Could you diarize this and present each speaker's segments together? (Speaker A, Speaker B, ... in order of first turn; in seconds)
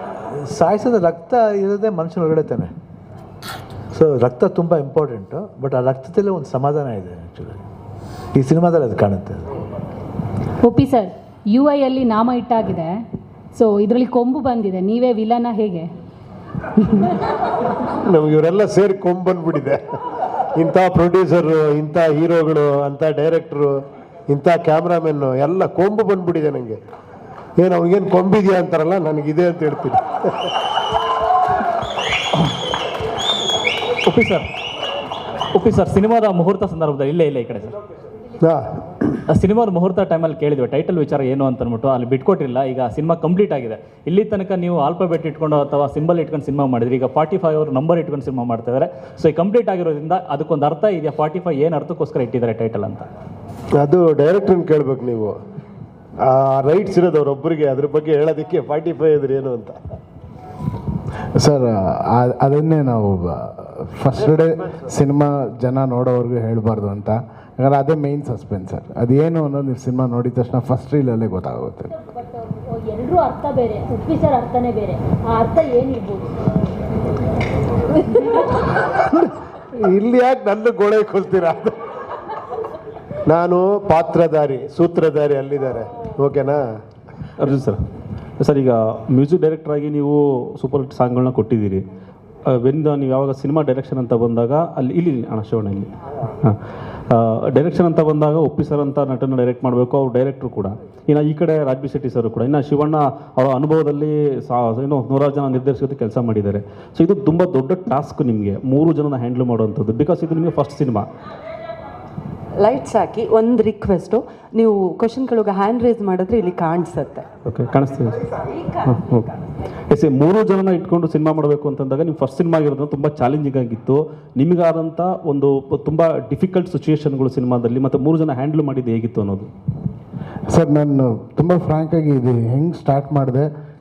Speaker A: 0.4-2.7, 3.9-7.5, 8.3-9.4
Speaker B: 10.6-13.0, 13.5-15.9
Speaker C: 18.1-19.8, 20.6-23.7, 24.3-26.8, 27.6-30.5, 53.8-55.4, 56.2-59.8, 78.9-81.8, 83.3-86.6
Speaker D: 34.1-34.5, 35.5-37.8, 39.3-53.1
Speaker E: 61.4-71.9, 130.5-133.5
Speaker F: 72.0-76.5, 78.0-78.5
Speaker G: 87.4-87.8, 88.4-91.8, 92.5-95.9, 97.1-111.0, 117.5-118.1, 118.8-119.2, 119.9-129.5
Speaker H: 112.6-117.2